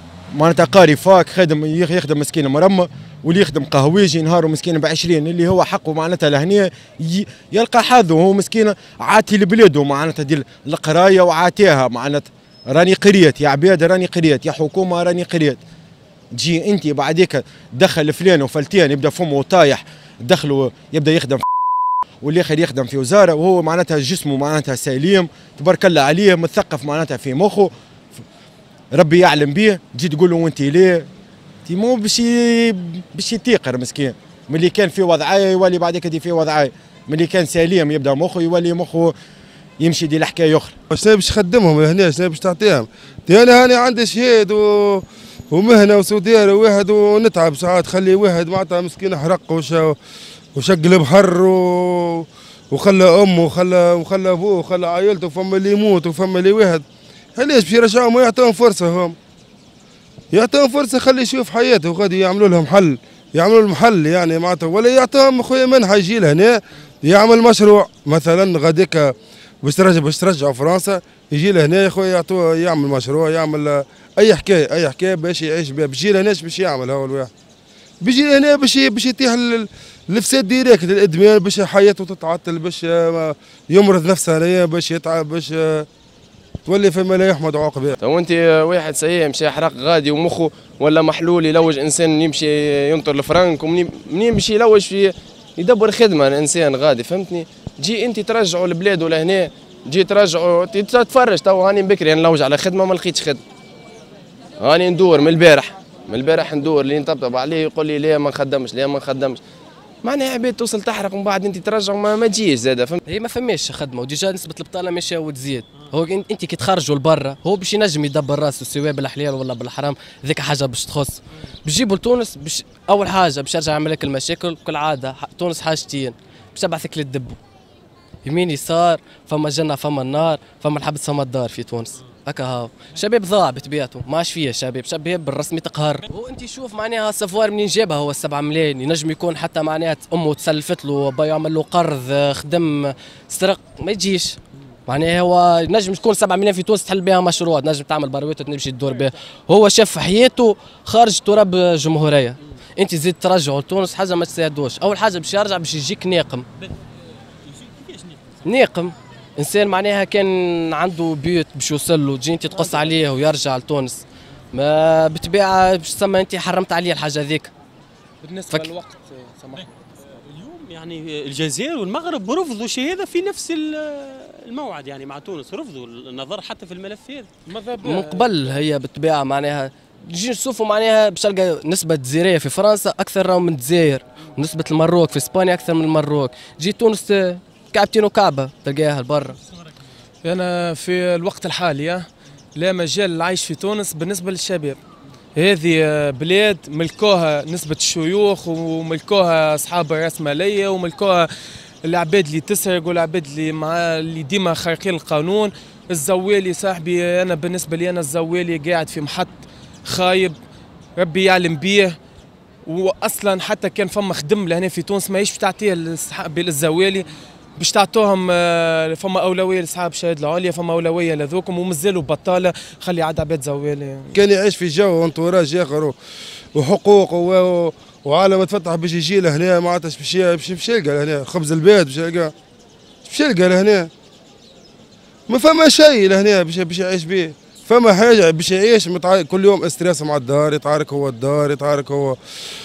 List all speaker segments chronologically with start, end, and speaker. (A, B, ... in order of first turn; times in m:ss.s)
0:00.3-0:15.6 A
0:16.3-0:21.4 A
0:22.2-0:27.7 A
0:28.9-0:31.1 A
0:31.6-0:39.1 A
0:39.8-0:40.7 A
0:40.9-0:50.0 B
0:50.5-0:56.8 B
0:57.4-0:59.2 B
1:00.3-1:17.3 B
1:18.0-1:25.9 B
1:26.6-1:28.0 B
1:28.0-1:43.4 C
1:44.6-1:49.4 C
1:50.0-1:53.0 C
1:53.1-2:07.4 D
2:08.2-2:36.4 D
2:37.6-2:38.2 E
2:38.4-2:47.5 D
2:42.5-2:43.0 F
2:48.2-2:49.7 F
2:50.3-2:57.3 E
2:57.5-2:58.6 F
2:57.8-3:09.4 D
3:10.2-3:14.8 F
3:15.4-3:21.3 F
3:21.8-3:30.4 F
3:31.0-3:32.0 F
3:32.6-3:37.0 F
3:37.6-3:44.1 F
3:44.1-3:45.9 B
3:46.5-3:52.3 B
3:53.0-3:53.9 B
3:55.3-4:02.2 B